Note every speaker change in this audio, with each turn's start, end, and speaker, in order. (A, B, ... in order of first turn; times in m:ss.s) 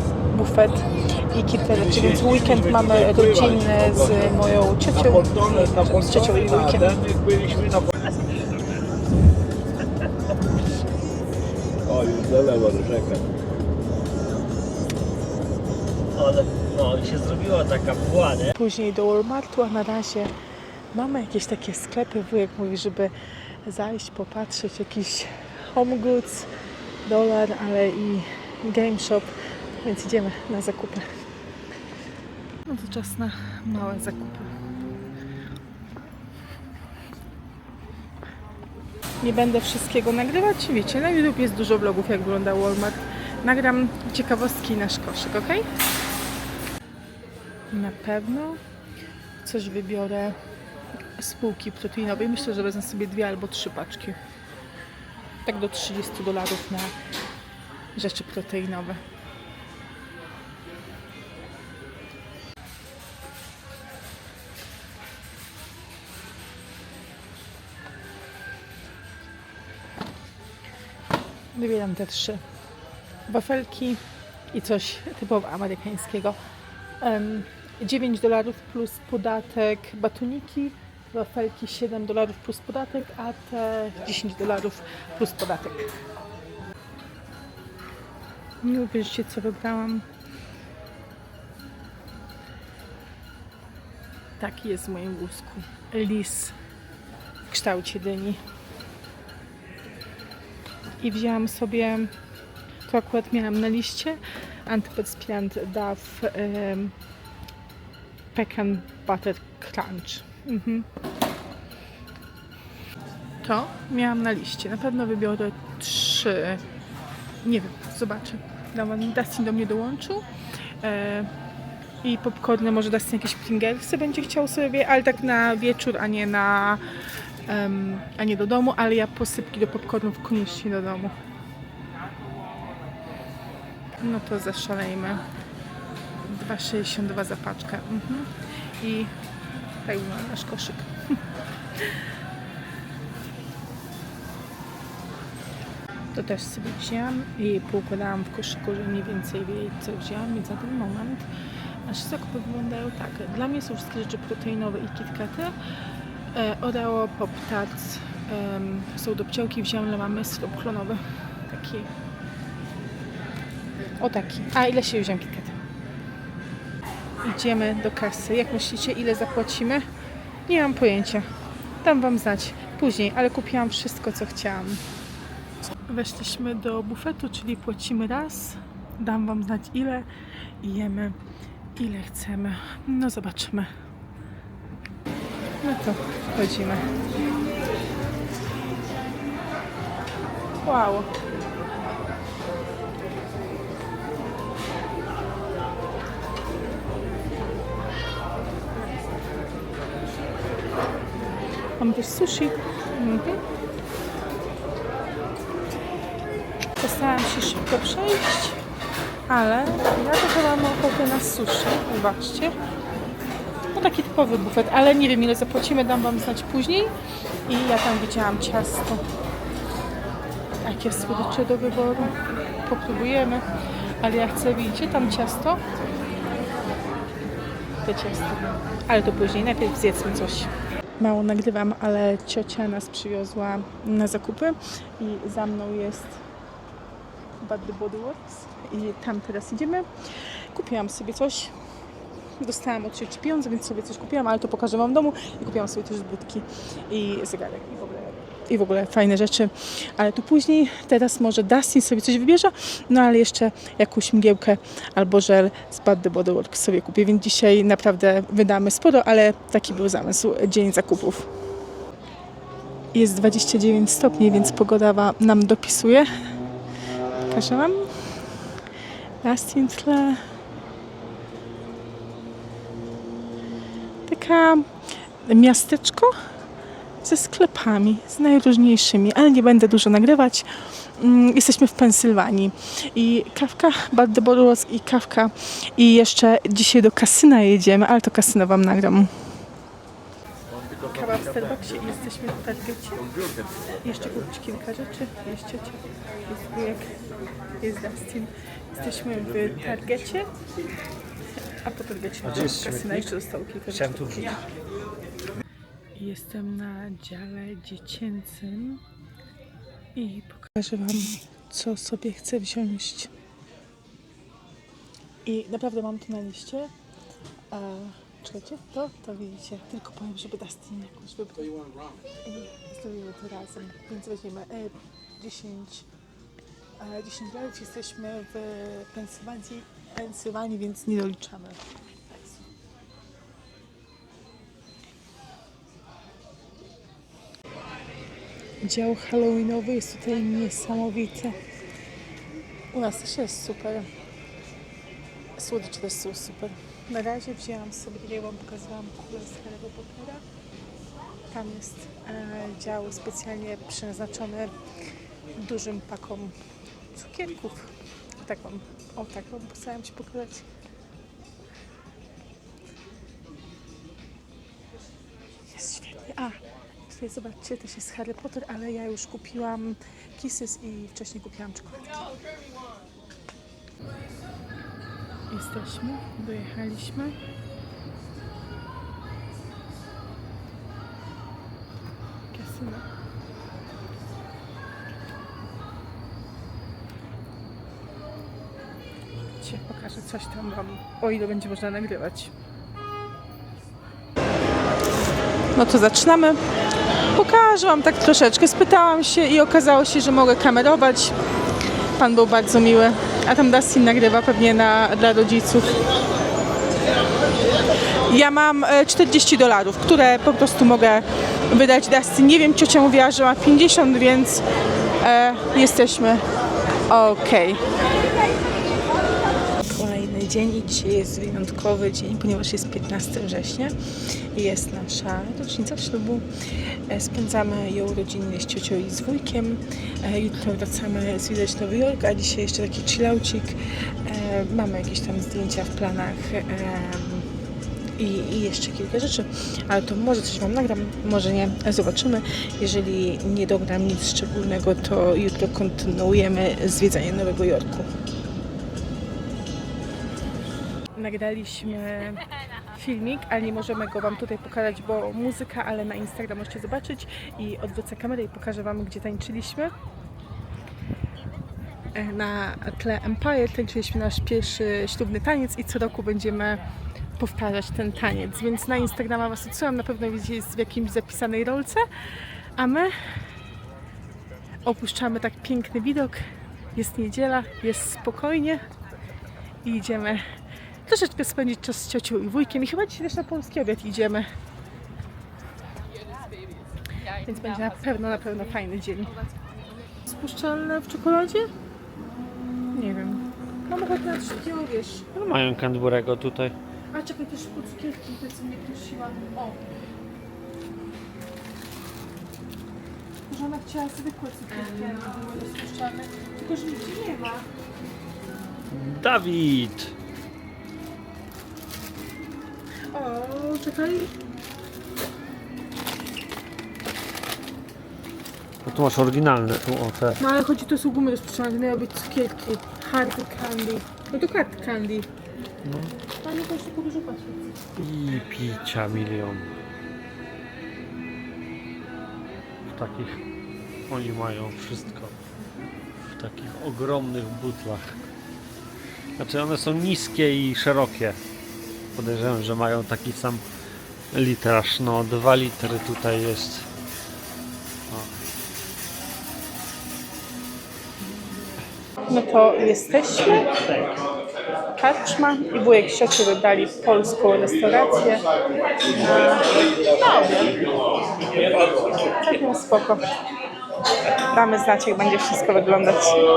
0:00.3-0:06.9 A
0:01.7-0:08.0 B
0:11.8-0:13.2 B
0:16.2-0:18.5 C
0:18.5-0:20.3 A
0:20.9-0:23.1 A
0:23.6-0:26.5 A
0:27.0-0:29.3 A
0:29.8-0:31.0 A
0:32.6-0:34.5 A
0:39.2-0:45.6 A
0:47.7-0:48.6 A
0:49.4-0:50.4 A
0:51.2-0:54.2 A
0:55.4-0:56.9 A
0:57.9-0:59.0 A
1:11.5-1:12.4 A
1:13.3-1:14.0 A
1:14.5-1:16.4 A
1:17.0-1:25.9 A
1:28.6-1:30.0 A
1:34.4-1:36.5 A
1:37.4-1:38.4 A
1:41.0-1:42.1 A
1:42.9-1:46.9 A
1:48.3-1:50.9 A
1:53.4-1:56.6 A
1:57.4-2:00.3 A
2:00.8-2:01.3 A
2:02.0-2:06.8 A
2:07.5-2:11.2 A
2:14.0-2:15.2 A
2:16.2-2:18.3 A
2:18.8-2:19.1 A
2:19.8-2:20.9 A
2:26.1-2:31.2 A
2:31.9-2:35.5 A
2:36.3-2:41.9 A
2:44.0-2:45.5 A
2:47.2-2:49.8 A
2:50.5-2:51.2 A
2:51.8-2:54.8 A
2:55.9-3:00.1 A
3:00.6-3:01.2 A
3:01.8-3:03.7 A
3:05.6-3:06.8 A
3:10.6-3:11.1 A
3:21.8-3:23.4 A
3:26.8-3:28.6 A
3:29.3-3:32.5 A
3:33.7-3:36.9 A
3:37.5-3:39.0 A
3:40.6-3:43.4 A
3:44.0-3:45.6 A
3:47.8-3:56.2 A
3:57.4-3:59.9 A
4:00.5-4:01.5 A
4:02.4-4:21.3 A
4:22.9-4:26.1 A
4:27.3-4:27.9 A
4:29.2-4:30.2 A
4:34.1-4:34.7 A
4:35.2-4:36.1 A
4:37.0-4:49.1 A
4:50.5-4:51.7 B
4:50.9-4:53.0 A
4:53.8-4:56.9 A
4:57.6-5:00.3 A
4:59.3-4:59.8 B
5:01.6-5:04.4 A
5:02.2-5:03.1 C
5:03.7-5:04.4 C
5:06.0-5:08.8 A
5:10.0-5:13.1 A
5:15.2-5:16.7 A
5:17.5-5:21.5 A
5:22.2-5:25.8 A
5:26.8-5:31.6 A
5:38.6-5:41.4 A
5:42.7-5:43.8 A
5:45.4-5:50.2 A
5:51.3-5:54.5 A
5:55.4-5:56.3 A
5:56.9-6:00.5 A
6:05.5-6:12.2 A
6:15.3-6:17.2 A
6:22.3-6:22.8 A
6:29.4-6:32.3 A
6:35.5-6:36.4 A
6:37.1-6:41.2 A
6:42.0-6:45.8 A
6:48.0-6:54.4 A
6:55.0-6:56.2 A
6:56.9-6:57.8 A
6:59.5-7:17.3 A
7:18.0-7:27.9 A
7:30.9-7:32.2 A
7:32.7-7:39.7 A
7:41.9-7:46.6 A
7:47.2-7:51.8 A
7:52.6-7:52.9 A
7:54.6-7:56.2 A
7:56.7-7:58.6 A
7:59.6-8:00.2 A
8:00.9-8:04.3 A
8:07.2-8:09.1 A
8:10.0-8:11.5 A
8:12.7-8:15.4 A
8:15.3-8:16.5 C
8:16.9-8:19.6 A
8:23.3-8:27.4 A
8:28.7-8:29.9 C
8:32.9-8:34.1 A
8:38.6-8:40.2 C
8:40.2-8:45.1 A
8:45.6-8:45.9 C
8:46.2-8:47.6 A
8:47.8-8:49.5 C
8:52.7-8:53.2 C
8:53.9-8:55.2 C
8:56.1-8:58.0 C
8:59.2-9:01.2 C
9:01.9-9:03.4 C
9:04.1-9:06.7 C
9:12.1-9:13.5 A
9:13.6-9:14.0 C
9:14.8-9:18.2 A
9:18.9-9:20.5 A
9:22.2-9:23.0 A
9:24.3-9:26.2 A